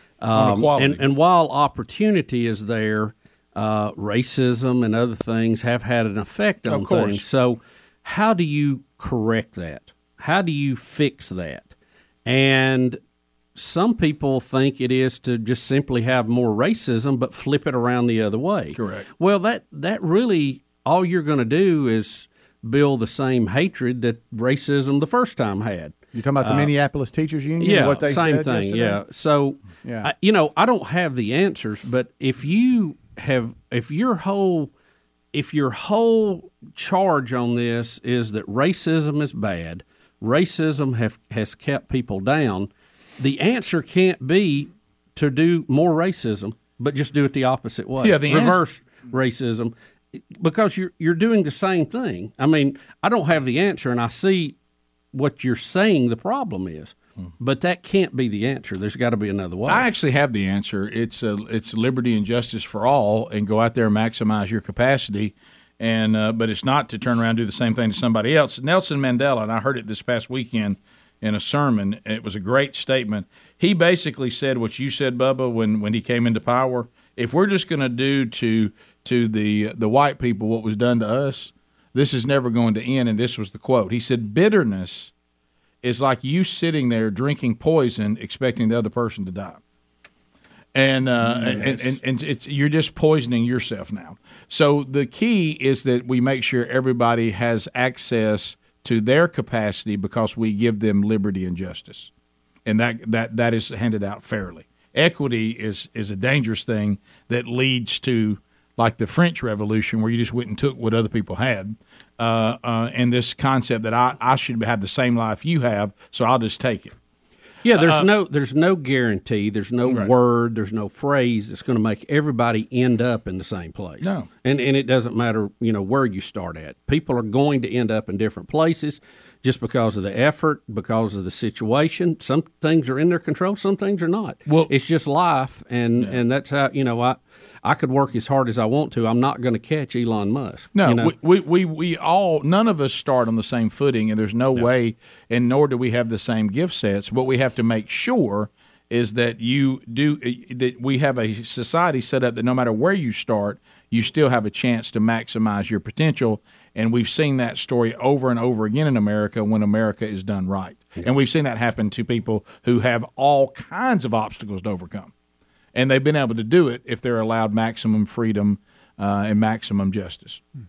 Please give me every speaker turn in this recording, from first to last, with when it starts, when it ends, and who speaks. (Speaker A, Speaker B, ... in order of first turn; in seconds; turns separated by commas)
Speaker A: 0.2-11.7, Speaker B: 0.3-1.0, Speaker B: 6.7-7.2, Speaker A: 12.2-13.0, Speaker A: 13.5-26.7, Speaker B: 18.7-19.1, Speaker C: 26.1-29.0, Speaker A: 27.6-34.7, Speaker C: 29.8-30.1, Speaker A: 35.3-49.7, Speaker B: 48.0-48.6, Speaker A: 50.3-54.5, Speaker A: 55.1-59.9, Speaker B: 59.7-85.1, Speaker B: 85.8-89.6, Speaker B: 90.7-102.1, Speaker A: 91.5-91.9, Speaker B: 102.6-116.9, Speaker A: 117.6-141.1, Speaker B: 117.7-118.1, Speaker B: 119.8-120.1, Speaker B: 124.0-124.3, Speaker B: 140.7-165.1, Speaker B: 165.7-170.4